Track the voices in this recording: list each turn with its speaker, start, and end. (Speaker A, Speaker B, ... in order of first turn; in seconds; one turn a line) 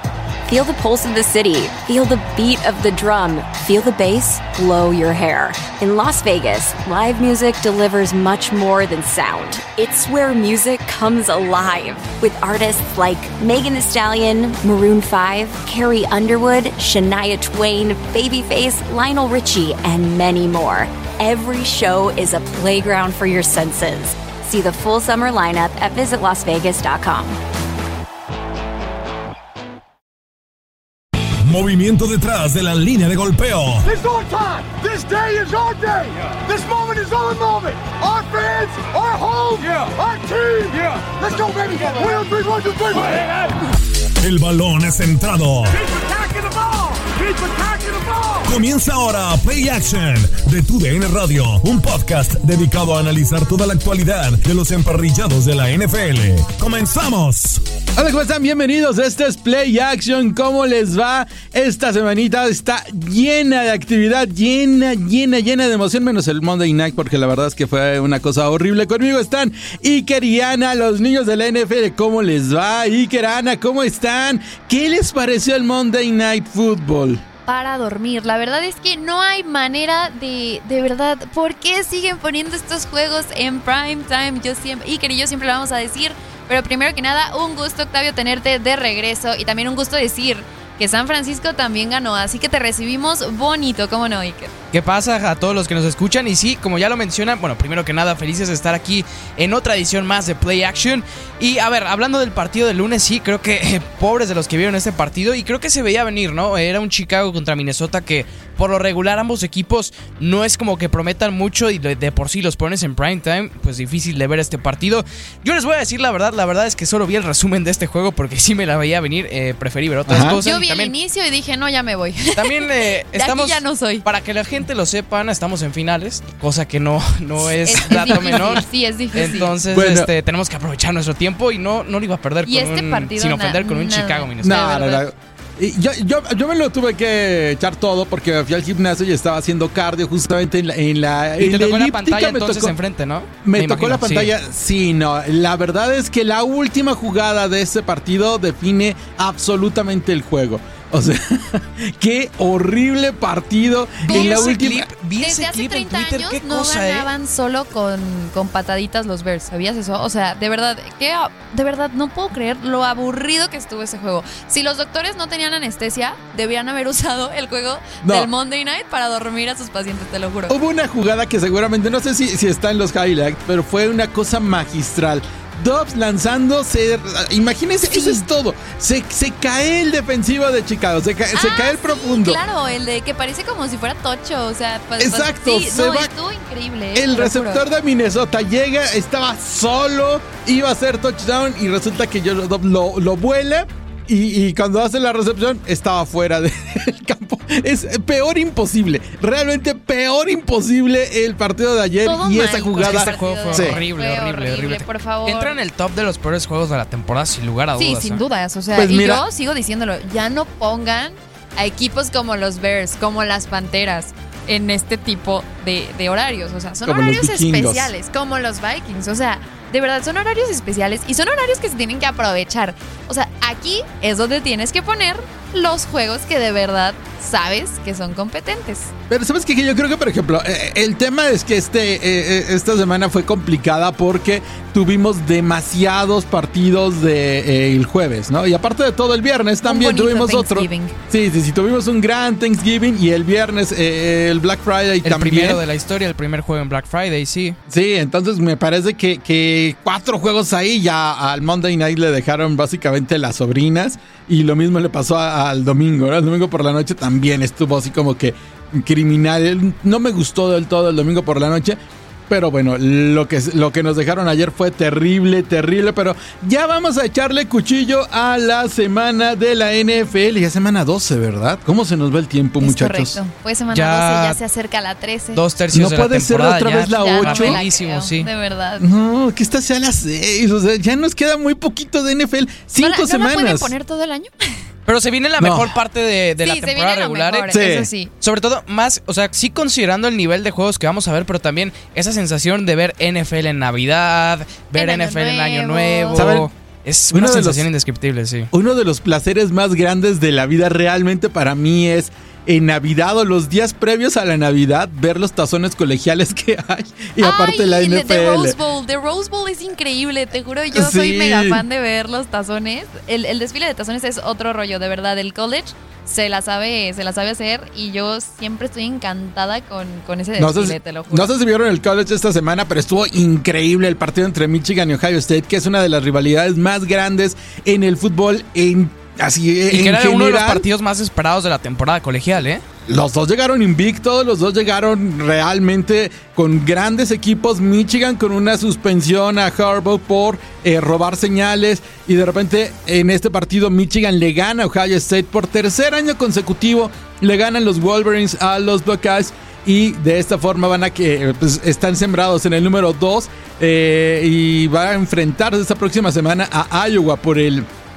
Speaker A: 0.5-27.4
Speaker B: 31.5-33.9
Speaker C: 33.8-43.5
Speaker B: 44.2-45.8
Speaker C: 45.7-48.5
Speaker B: 48.4-57.6
Speaker D: 58.0-77.2
Speaker E: 77.5-94.5
Speaker F: 94.7-120.9
Speaker D: 120.1-120.4
Speaker E: 120.4-124.0
Speaker F: 122.3-134.8
Speaker E: 127.6-129.5
Speaker D: 127.9-128.6
Speaker D: 129.7-130.1
Speaker E: 132.4-135.0
Speaker D: 134.4-142.8
Speaker F: 141.4-144.3
Speaker D: 143.4-154.9
Speaker E: 154.1-154.6
Speaker F: 154.1-157.1
Speaker E: 155.2-170.6
Speaker D: 168.0-168.3
Speaker D: 170.5-182.4
Speaker E: 177.9-178.2
Speaker E: 181.3-187.6
Speaker D: 185.0-186.1
Speaker D: 186.9-203.8
Speaker E: 202.0-205.6
Speaker F: 202.8-208.2
Speaker E: 207.8-228.9
Speaker D: 208.7-209.2
Speaker D: 216.8-217.9
Speaker D: 229.1-245.6
Speaker E: 239.6-240.9
Speaker F: 245.1-247.6
Speaker D: 247.7-273.2
Speaker E: 272.6-275.4
Speaker F: 273.7-274.4
Speaker F: 275.3-278.3
Speaker D: 275.7-277.6
Speaker E: 276.9-278.8
Speaker D: 278.8-283.7
Speaker E: 282.8-284.6
Speaker F: 284.9-287.6
Speaker D: 285.4-285.7
Speaker E: 286.4-288.1
Speaker D: 287.5-287.9
Speaker F: 288.2-298.5
Speaker E: 294.7-296.4
Speaker D: 296.1-296.5
Speaker D: 297.1-297.6
Speaker D: 298.5-308.6
Speaker E: 307.2-321.3
Speaker D: 310.7-311.6
Speaker D: 320.4-330.6
Speaker F: 329.7-332.6
Speaker D: 332.9-357.7